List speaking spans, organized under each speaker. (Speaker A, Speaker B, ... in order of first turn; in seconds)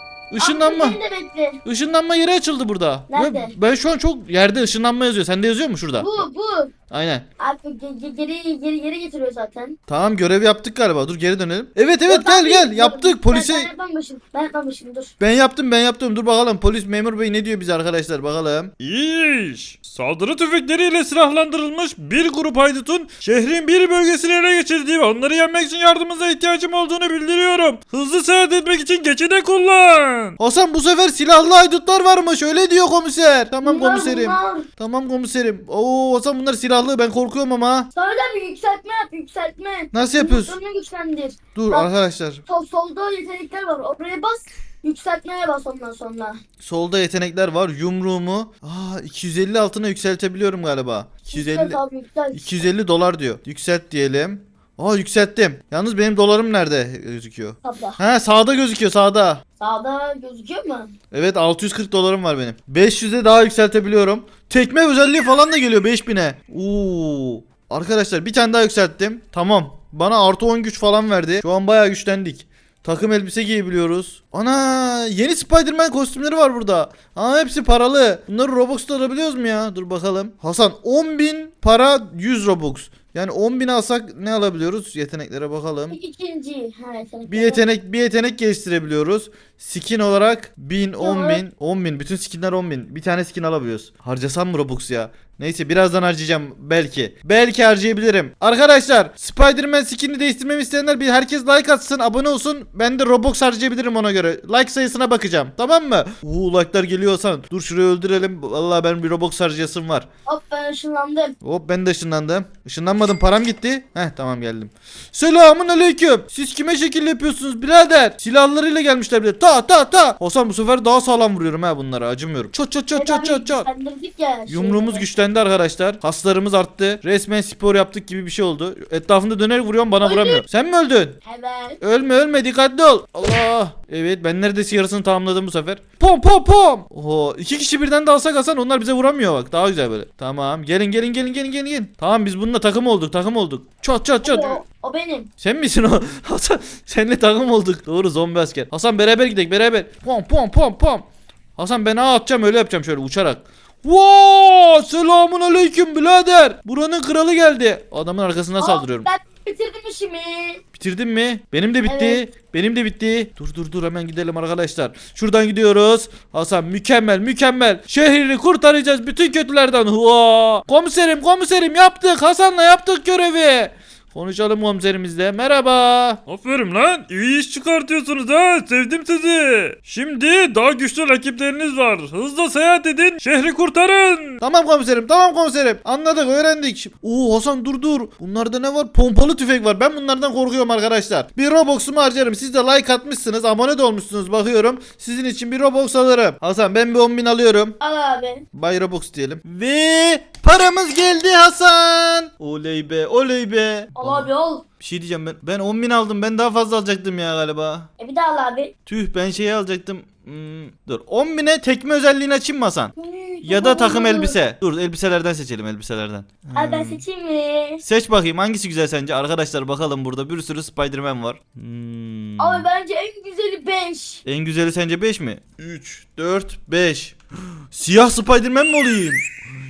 Speaker A: 0.3-1.0, 1.6-6.2, 6.9-7.2, 9.9-13.7, 15.2-18.7, 30.4-37.9, 39.9-40.6, 41.5-42.4, 46.6-51.8, 52.3-59.4, 61.1-86.0, 87.3-110.0, 111.4-123.7, 124.5-131.2, 131.8-144.6, 145.4-159.1, 160.7-176.2, 184.4-197.8, 198.5-207.9, 208.8-217.0, 217.8-222.7, 224.2-227.2, 227.7-229.2
Speaker B: 0.4-1.6, 3.1-3.5, 6.0-6.7, 7.4-9.8, 12.1-15.1, 33.6-34.7, 37.9-41.9, 42.5-46.4, 51.3-52.4, 57.6-58.0, 59.6-60.9, 85.9-87.6, 91.0-91.4, 110.2-111.3, 122.9-125.1, 130.0-130.4, 131.2-131.8, 144.2-145.3, 158.6-160.6, 161.8-162.2, 197.8-198.4, 203.9-204.6, 208.0-208.7, 213.0-214.4, 216.5-217.8, 222.4-224.2
Speaker C: 18.8-30.4, 176.3-184.4